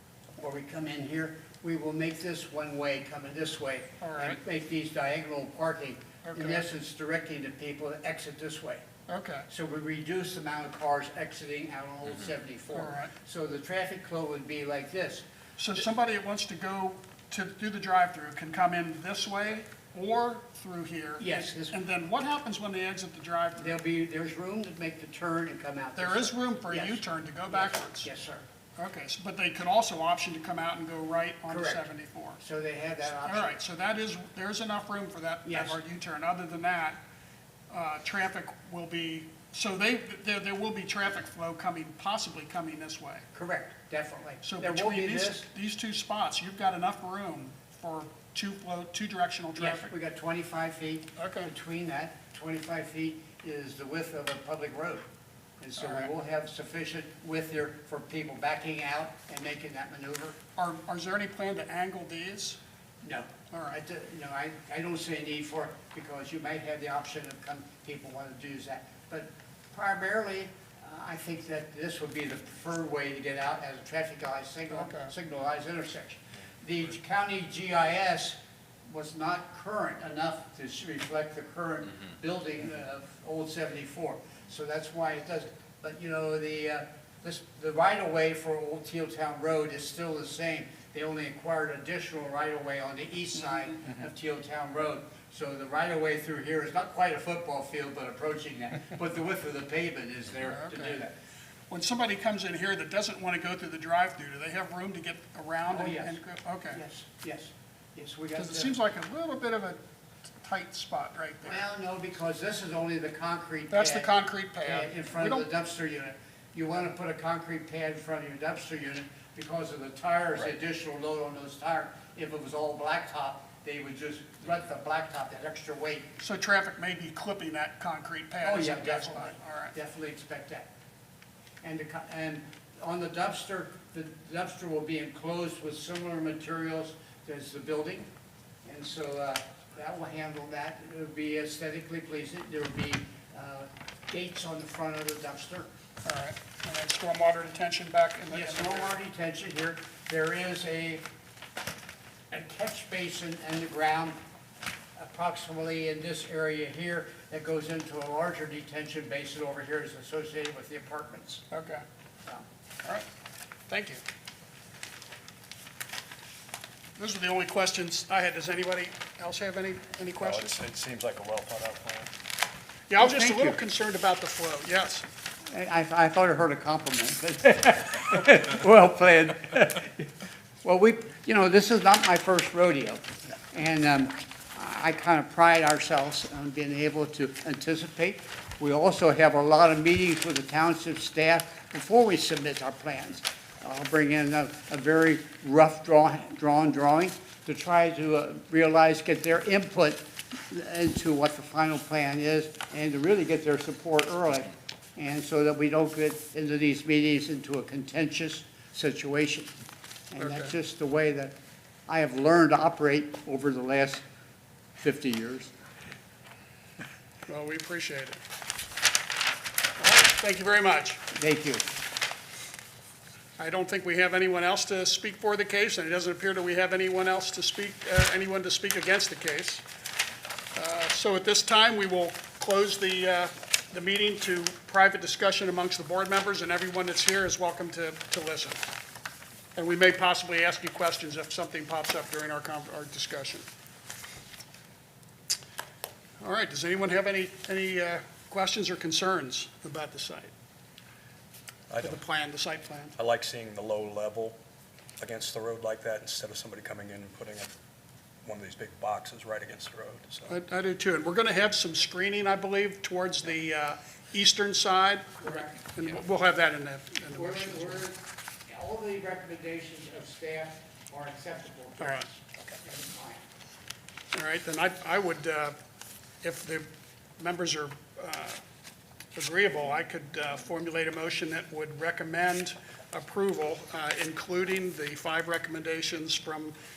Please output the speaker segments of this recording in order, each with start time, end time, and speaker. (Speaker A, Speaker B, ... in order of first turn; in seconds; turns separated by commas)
Speaker A: 0.4-8.8, Speaker B: 4.0-4.4, Speaker B: 6.2-6.6, Speaker B: 9.1-9.5, Speaker A: 9.5-15.2, Speaker B: 12.7-13.1, Speaker B: 15.6-23.8, Speaker A: 21.2-21.8, Speaker A: 23.6-28.4, Speaker B: 26.0-28.1, Speaker B: 28.8-32.4, Speaker A: 31.5-33.5, Speaker B: 33.2-37.0, Speaker A: 35.5-35.8, Speaker B: 37.7-43.2, Speaker A: 43.3-45.5, Speaker B: 44.4-49.9, Speaker A: 49.6-55.1, Speaker B: 51.2-51.5, Speaker A: 55.6-60.4, Speaker B: 55.8-56.1, Speaker B: 60.6-62.6, Speaker A: 63.0-78.4, Speaker B: 63.5-63.8, Speaker B: 74.7-75.1, Speaker A: 78.9-101.2, Speaker B: 100.5-101.0, Speaker B: 101.7-106.8, Speaker A: 105.7-106.2, Speaker A: 106.7-108.8, Speaker B: 108.3-109.8, Speaker B: 110.4-111.6, Speaker A: 111.4-114.1, Speaker B: 113.7-115.5, Speaker A: 114.6-126.2, Speaker B: 126.2-129.7, Speaker A: 128.4-130.7, Speaker A: 131.6-138.1, Speaker A: 138.7-145.7, Speaker B: 146.0-149.0, Speaker A: 148.3-151.1, Speaker A: 152.3-154.2, Speaker A: 154.9-161.5, Speaker B: 161.5-161.8, Speaker B: 163.7-164.0, Speaker B: 167.0-170.6, Speaker C: 170.2-172.1, Speaker B: 172.9-175.1, Speaker A: 173.0-173.6, Speaker A: 175.5-180.1, Speaker A: 180.6-209.5, Speaker A: 210.1-211.3, Speaker B: 210.2-210.5, Speaker A: 211.9-214.0, Speaker A: 214.8-215.5, Speaker B: 217.3-218.2, Speaker B: 219.8-221.0, Speaker A: 221.1-221.7, Speaker B: 223.4-229.6, Speaker B: 230.6-238.6, Speaker B: 239.6-243.4, Speaker B: 246.2-250.3, Speaker C: 251.7-252.0, Speaker B: 251.8-253.0, Speaker C: 253.0-254.4, Speaker C: 255.0-257.5, Speaker C: 258.2-260.4, Speaker B: 260.3-267.8, Speaker A: 265.2-265.5, Speaker A: 267.1-273.2, Speaker B: 271.8-272.1, Speaker B: 274.1-275.6, Speaker B: 276.2-276.7, Speaker B: 277.2-278.4, Speaker B: 279.1-286.6